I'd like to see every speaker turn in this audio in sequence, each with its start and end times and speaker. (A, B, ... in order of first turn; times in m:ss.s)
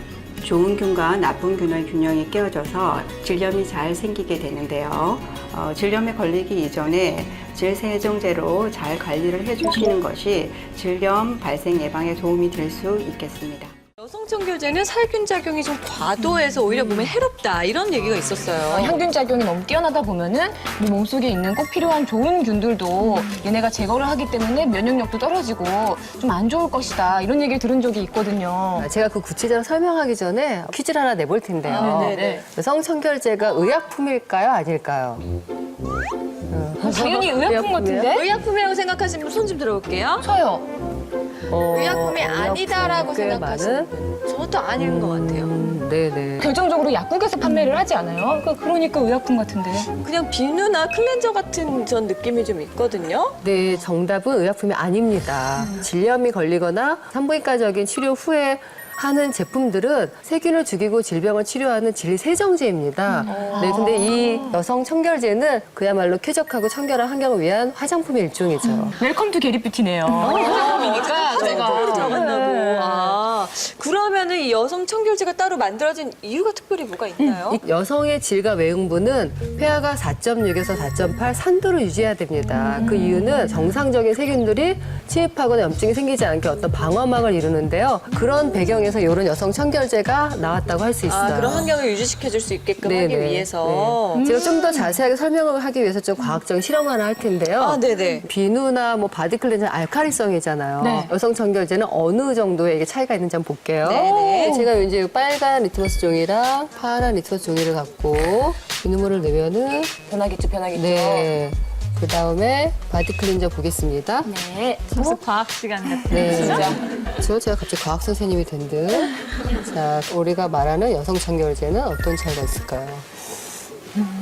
0:00.4-0:13.7 A
0:14.0-0:19.1 B
0:18.7-0:28.8 C
0:28.8-0:35.2 D
0:31.6-0:32.4 B
0:31.8-0:32.3 C
0:36.5-0:38.2 D
0:36.8-0:38.2 C
0:37.3-0:37.6 B
0:38.2-0:40.3 B
0:40.2-0:40.6 C
0:41.5-0:43.9 D
0:41.5-0:45.5 B
0:45.0-0:46.5 D
0:46.4-0:49.9 C
0:50.0-0:53.4 B
0:53.4-1:09.0 D
1:03.2-1:04.6 B
1:09.0-1:13.2 C
1:10.1-1:17.6 B
1:10.2-1:10.7 D
1:11.5-1:12.2 D
1:17.5-1:31.8 D
1:31.0-1:34.3 B
1:32.8-1:50.0 D
1:37.6-1:38.2 B
1:43.8-1:44.8 B
1:50.7-1:54.4 D
1:54.9-1:55.2 D
1:55.0-1:56.7 B
1:55.9-1:56.7 C
1:56.1-2:03.1 D